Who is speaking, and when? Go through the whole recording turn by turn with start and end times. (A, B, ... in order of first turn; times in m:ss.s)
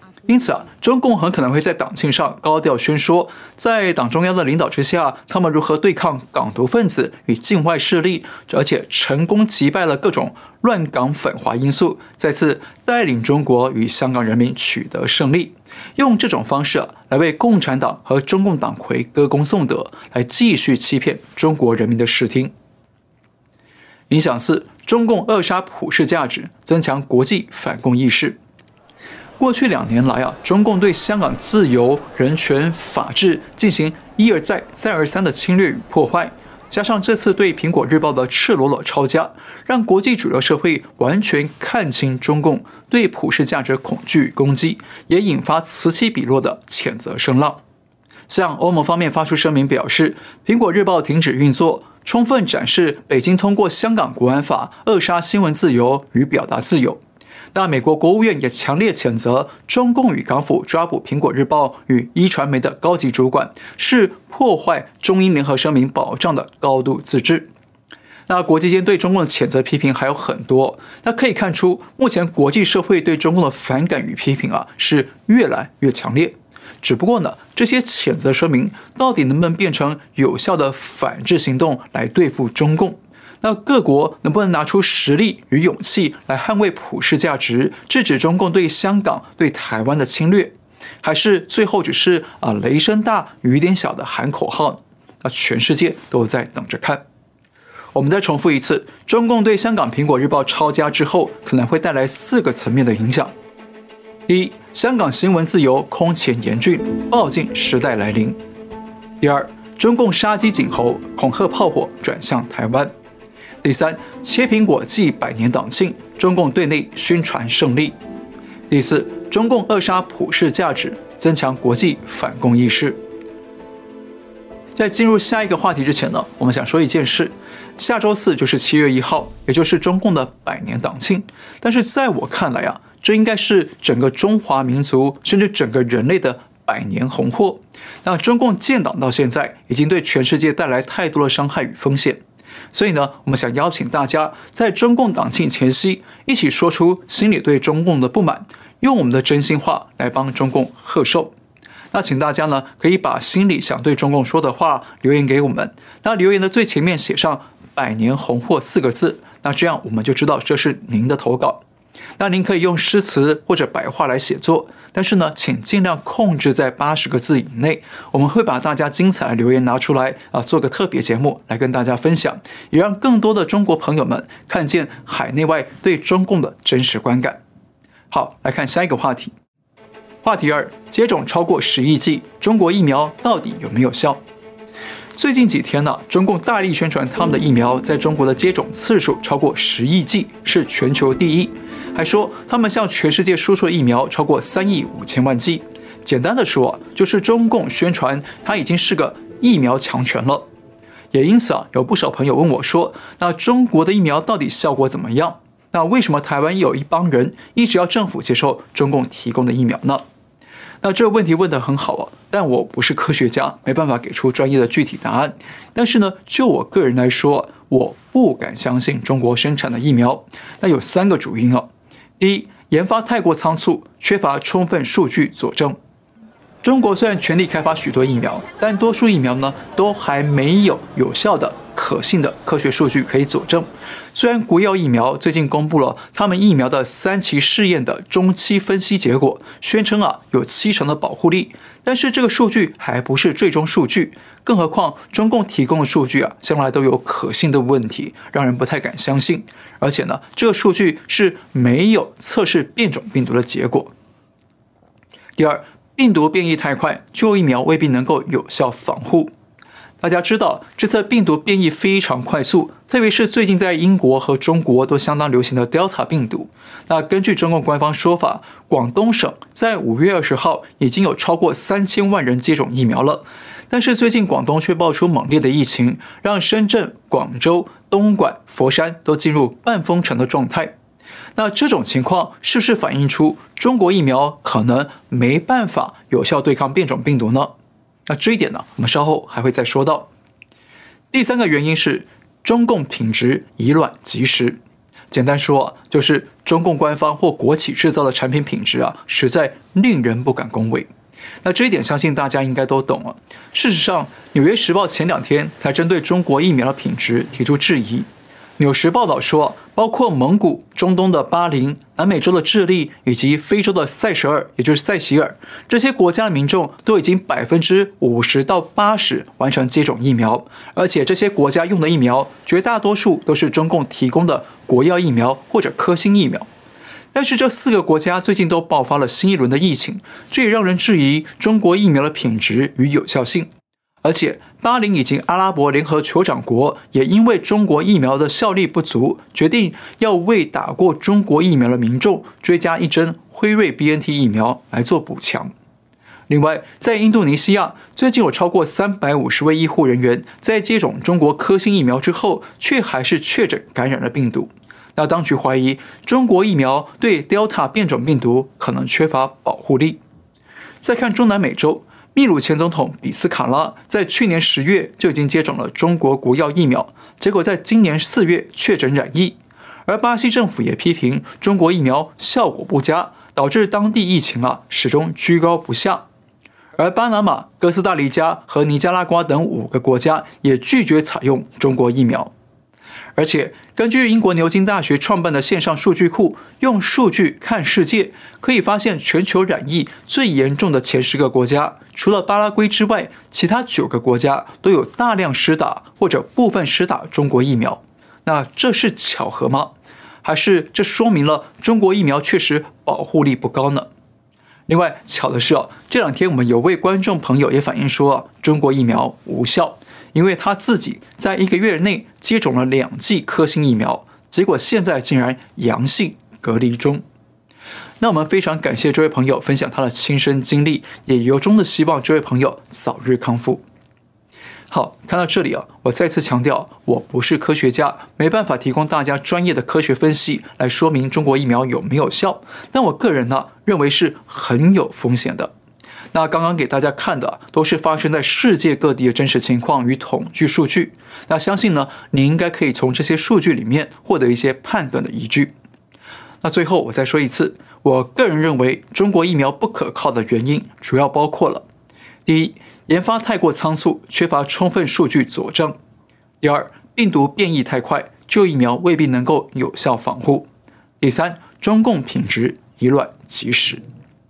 0:00.2-0:22.5 A
0:24.1-0:28.4 A
0:29.4-0:47.6 A
0:48.3-0:57.0 A
0:57.5-1:07.5 A
1:08.3-1:37.0 A
1:37.9-1:43.3 A
1:44.3-1:48.4 A
1:49.2-1:52.9 A
1:53.6-1:58.0 A
1:58.7-2:03.0 A
2:04.8-2:22.2 A
2:22.7-2:31.3 A
2:31.9-2:41.6 A
2:42.2-2:57.4 A
2:58.1-2:59.3 A
3:00.2-3:04.2 A
3:05.1-3:20.4 A
3:21.1-3:30.0 A
3:30.8-3:41.7 A
3:42.2-3:45.8 A
3:46.6-4:13.9 A
4:15.4-4:19.3 A
4:20.0-4:40.8 A
4:41.4-4:47.5 A
4:48.1-4:50.1 A
4:51.1-4:54.6 A
4:55.1-5:00.9 A
5:01.4-5:08.1 A
5:08.6-5:26.5 A
5:27.1-5:33.5 A
5:34.0-5:45.5 A
5:46.3-6:00.0 A
6:00.8-6:16.0 A
6:16.8-6:22.3 A
6:23.2-6:43.9 A
6:44.7-6:57.0 A
6:58.0-7:03.6 A
7:04.7-7:15.5 A
7:16.1-7:25.5 A
7:26.4-7:31.6 A
7:32.2-7:35.8 A
7:36.4-7:40.5 A
7:41.0-7:43.8 A